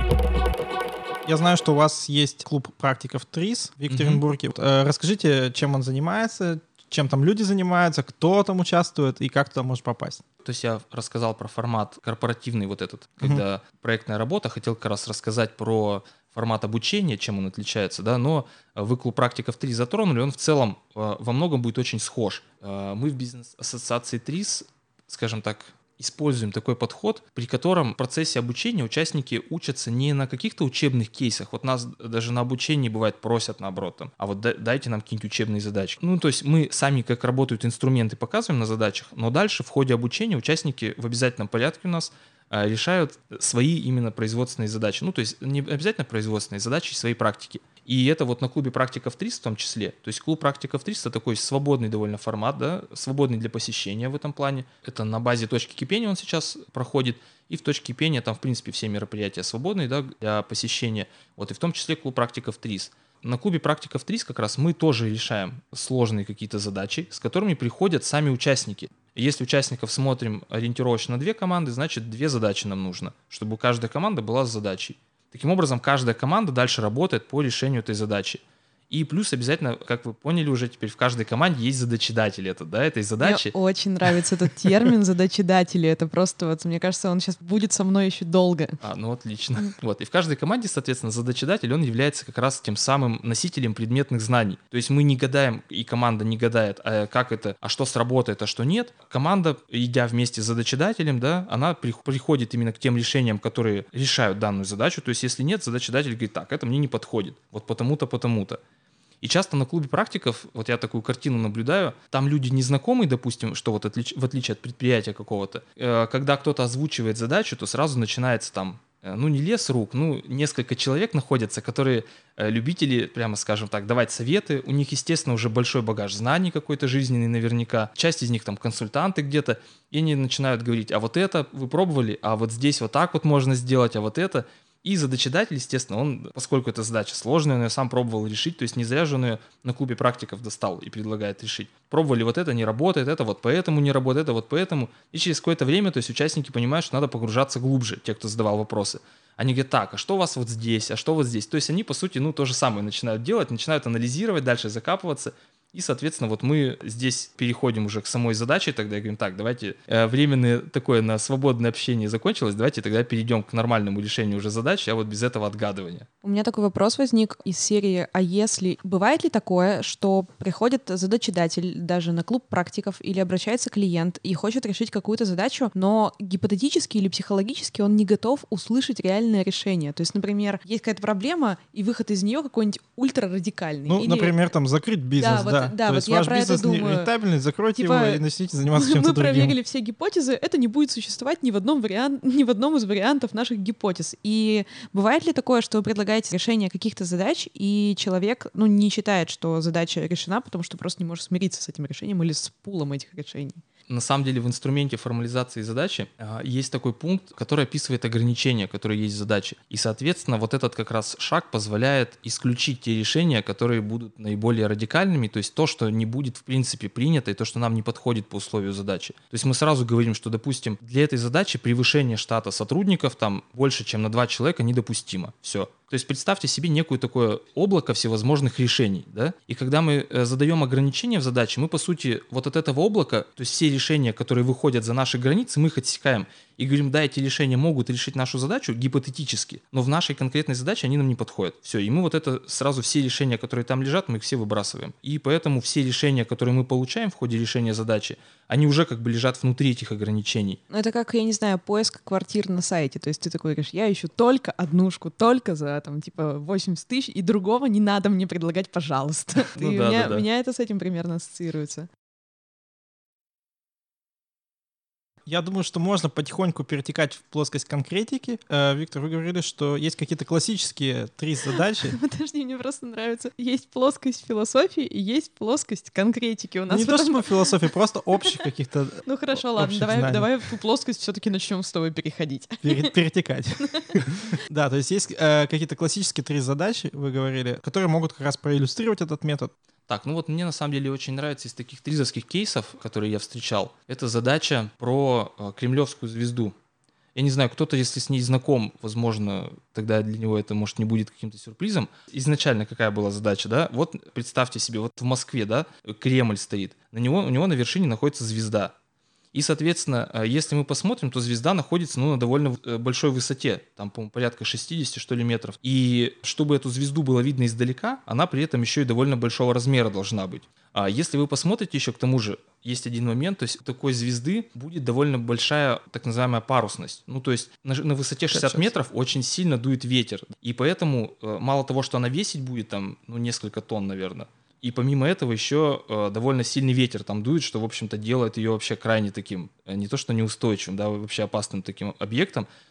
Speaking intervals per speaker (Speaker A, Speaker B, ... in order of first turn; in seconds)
Speaker A: 1.2-10.2, 183.9-189.6, 265.3-271.9, 276.7-280.3, 282.6-289.5, 328.3-328.7
Speaker B: 3.9-4.2, 10.4-83.5, 88.8-108.6, 109.2-166.1, 203.9-250.6, 259.6-260.2, 289.9-296.5, 297.1-308.7, 309.3-342.5
Speaker C: 83.2-88.8, 166.2-184.3, 185.2-187.1, 187.8-188.2, 188.7-203.6, 250.7-261.9, 271.8-277.6, 279.0-282.9, 283.6-283.9